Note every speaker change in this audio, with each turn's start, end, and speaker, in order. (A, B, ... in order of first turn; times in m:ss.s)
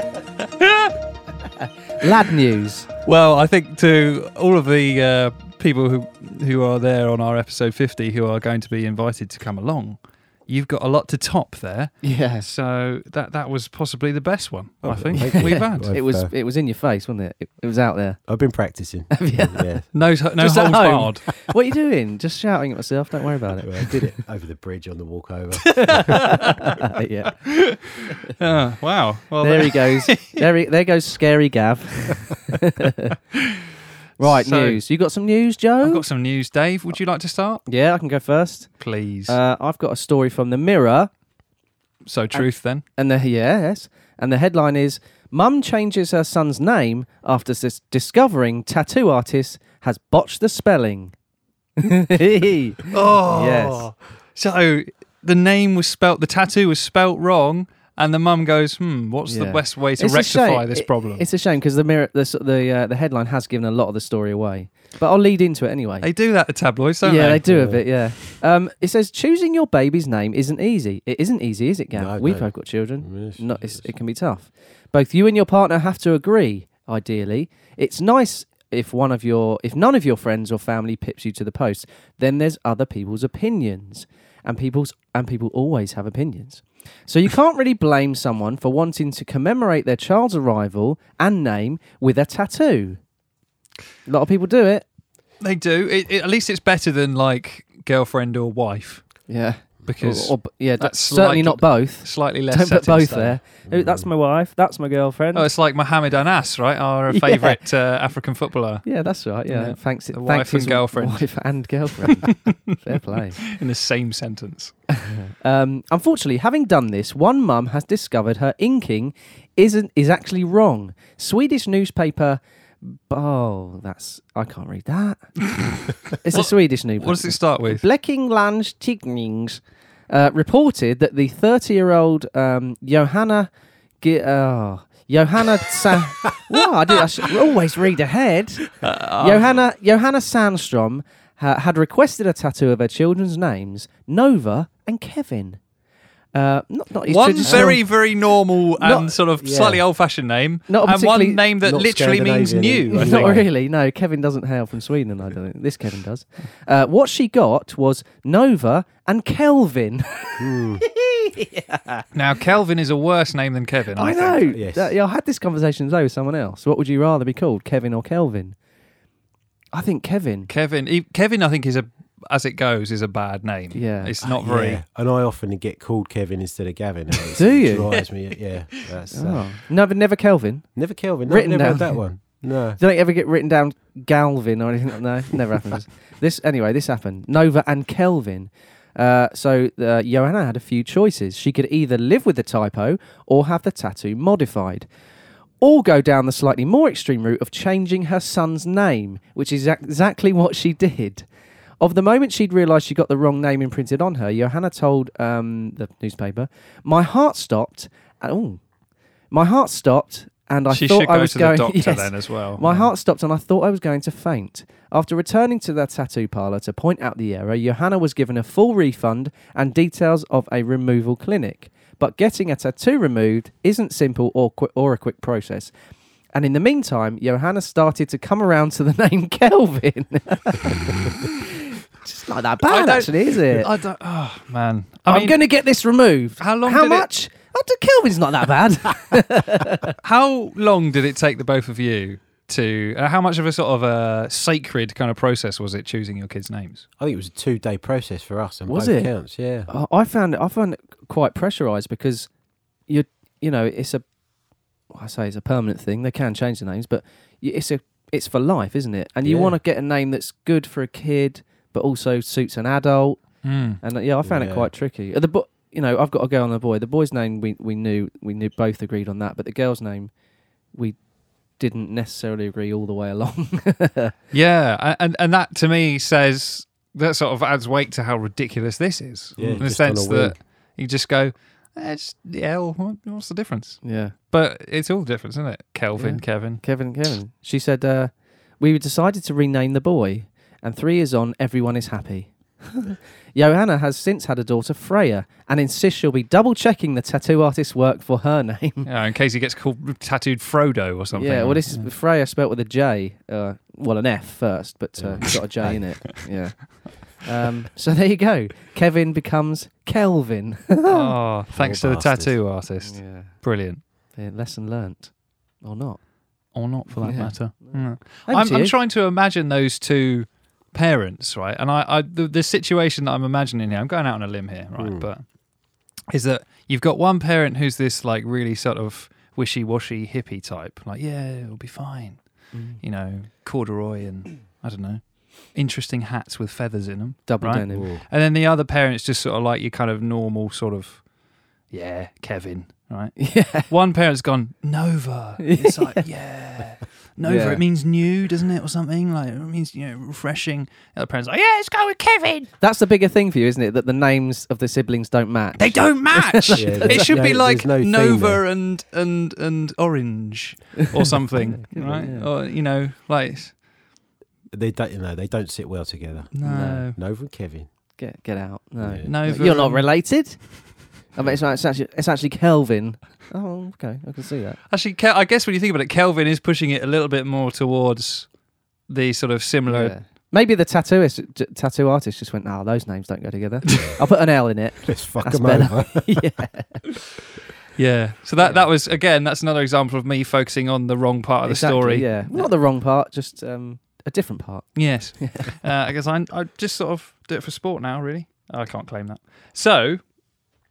0:00.4-0:01.0 A
0:02.0-0:02.9 B
0:03.0-0:16.0 A
0:12.0-0:12.5 B
0:14.8-0:16.3 C
0:15.2-0:18.2 B
0:18.3-0:19.9 C
0:19.1-0:19.6 B
0:19.9-0:21.2 A
0:20.4-0:24.1 B
0:23.6-0:26.4 C
0:25.8-0:26.7 A
0:25.8-0:27.4 B
0:27.5-0:30.4 A
0:29.4-0:33.2 B
0:34.2-0:36.0 B
0:34.2-0:34.8 A
0:35.8-0:37.6 A
0:37.7-0:38.7 B
0:38.8-0:39.4 A
0:39.3-0:41.1 B
0:42.0-0:42.8 A
0:42.3-0:51.1 B
0:51.8-0:53.9 B
0:52.9-1:01.2 A
0:59.3-1:06.1 B
1:06.0-1:07.5 A
1:07.0-1:33.0 B
1:07.4-1:07.8 C
1:11.9-1:13.9 C
1:34.1-1:34.9 B
1:35.4-1:39.1 A
1:39.3-1:45.5 B
1:39.9-1:43.4 A
1:43.7-1:44.1 C
1:45.3-1:48.9 A
1:47.1-1:47.6 B
1:48.8-1:53.4 B
1:49.5-1:51.3 A
1:52.0-1:54.7 A
1:54.9-2:05.2 B
2:05.9-2:07.8 A
2:06.2-2:13.5 B
2:14.0-2:25.6 B
2:18.8-2:19.6 A
2:26.3-2:27.9 B
2:27.1-2:33.4 A
2:27.4-2:27.8 C
2:28.8-2:29.2 B
2:29.4-2:29.8 C
2:30.7-2:31.4 B
2:31.6-2:33.5 C
2:32.9-2:42.0 B
2:40.4-2:40.8 C
2:42.1-2:44.5 A
2:44.0-2:48.6 B
2:44.5-2:44.9 C
2:49.7-2:50.5 B
2:50.5-2:54.8 A
2:53.7-2:54.1 B
2:54.2-2:59.5 C
2:57.4-2:58.0 B
2:59.1-3:00.7 B
3:00.8-3:02.8 C
3:01.3-3:02.0 B
3:02.8-3:14.9 B
3:15.6-3:21.3 B
3:21.8-3:28.6 B
3:29.3-3:45.7 B
3:30.7-3:32.9 A
3:46.4-3:53.7 B
3:52.7-3:55.4 A
3:55.1-3:59.9 B
3:56.4-3:57.1 A
4:00.0-4:06.8 A
4:07.0-4:09.7 C
4:08.7-4:09.1 B
4:09.7-4:12.3 B
4:12.9-4:14.0 B
4:14.9-4:23.2 B
4:19.2-4:19.6 C
4:23.4-4:23.8 A
4:23.8-4:30.1 B
4:24.2-4:24.7 C
4:31.6-4:34.2 B
4:34.3-4:46.6 A
4:39.4-4:40.4 C
4:43.8-4:44.1 B
4:46.0-4:58.9 B
4:58.8-5:01.9 A
5:01.1-5:11.1 B
5:05.0-5:06.0 C
5:10.9-5:13.8 A
5:11.6-5:12.4 C
5:12.8-5:13.4 B
5:14.1-5:16.0 B
5:16.5-5:25.2 A
5:17.0-5:18.8 B
5:24.8-5:25.1 C
5:26.1-5:32.2 A
5:32.5-5:32.8 B
5:32.8-5:41.0 A
5:37.3-5:37.9 B
5:37.7-5:38.0 C
5:41.7-5:52.5 A
5:43.2-5:43.7 B
5:45.4-5:46.1 B
5:47.2-5:47.6 B
5:52.6-5:57.2 B
5:55.6-6:03.6 A
5:56.6-5:58.4 C
6:01.3-6:02.3 B
6:04.5-6:07.7 C
6:06.3-6:07.0 A
6:06.4-6:06.9 B
6:08.0-6:14.6 B
6:08.8-6:09.1 C
6:09.0-6:09.9 A
6:14.7-6:18.3 A
6:18.9-6:20.0 A
6:19.7-6:26.8 B
6:24.8-6:26.3 C
6:27.8-6:32.5 A
6:28.4-6:28.7 B
6:31.5-6:35.5 B
6:34.8-6:40.0 A